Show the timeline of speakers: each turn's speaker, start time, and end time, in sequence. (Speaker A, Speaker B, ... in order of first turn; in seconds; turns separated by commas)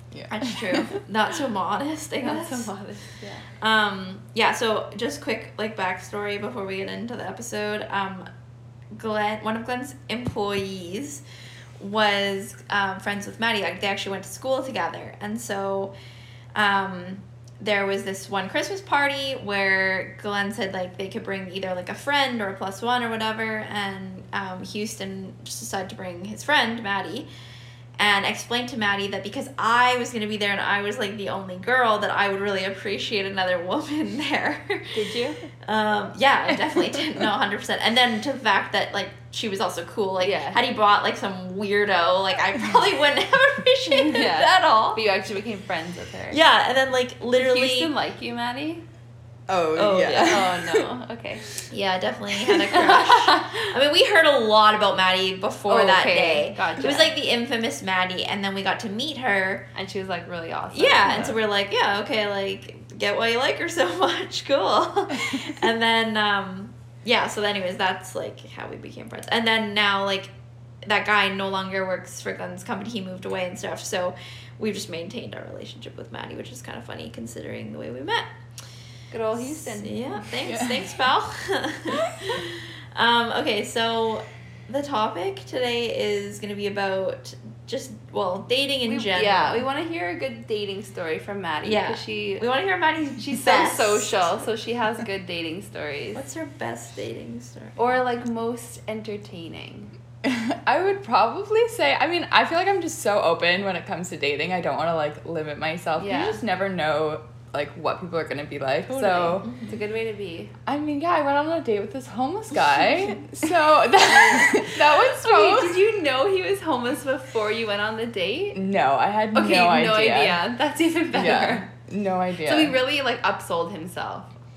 Speaker A: 0.1-0.9, Speaker B: 0.3-2.7, Speaker C: 2.2-3.5, Speaker B: 3.6-8.3, Speaker B: 8.9-11.2, Speaker B: 11.8-15.9, Speaker B: 16.5-27.3, Speaker B: 28.0-34.9, Speaker C: 34.9-35.4, Speaker B: 35.6-45.0, Speaker A: 36.5-37.3, Speaker C: 40.2-40.6, Speaker C: 44.0-46.4, Speaker B: 46.3-47.9, Speaker C: 47.4-48.8, Speaker A: 49.5-50.9, Speaker B: 49.7-50.5, Speaker C: 50.2-51.4, Speaker B: 51.7-59.6, Speaker C: 52.6-53.6, Speaker C: 55.7-57.1, Speaker C: 59.7-61.4, Speaker B: 60.7-70.3, Speaker B: 70.8-78.3, Speaker C: 79.1-80.1, Speaker B: 79.4-89.6, Speaker A: 80.4-80.9, Speaker A: 82.0-82.3, Speaker C: 88.8-92.4, Speaker B: 91.6-94.3, Speaker C: 93.2-96.2, Speaker B: 96.1-98.0, Speaker C: 97.8-99.9, Speaker A: 100.2-109.5, Speaker C: 106.0-106.4, Speaker C: 108.9-110.5, Speaker B: 109.4-109.8, Speaker A: 110.7-115.8, Speaker C: 114.0-118.6, Speaker A: 118.5-120.4, Speaker C: 119.3-121.7, Speaker A: 121.1-122.8, Speaker C: 122.4-124.3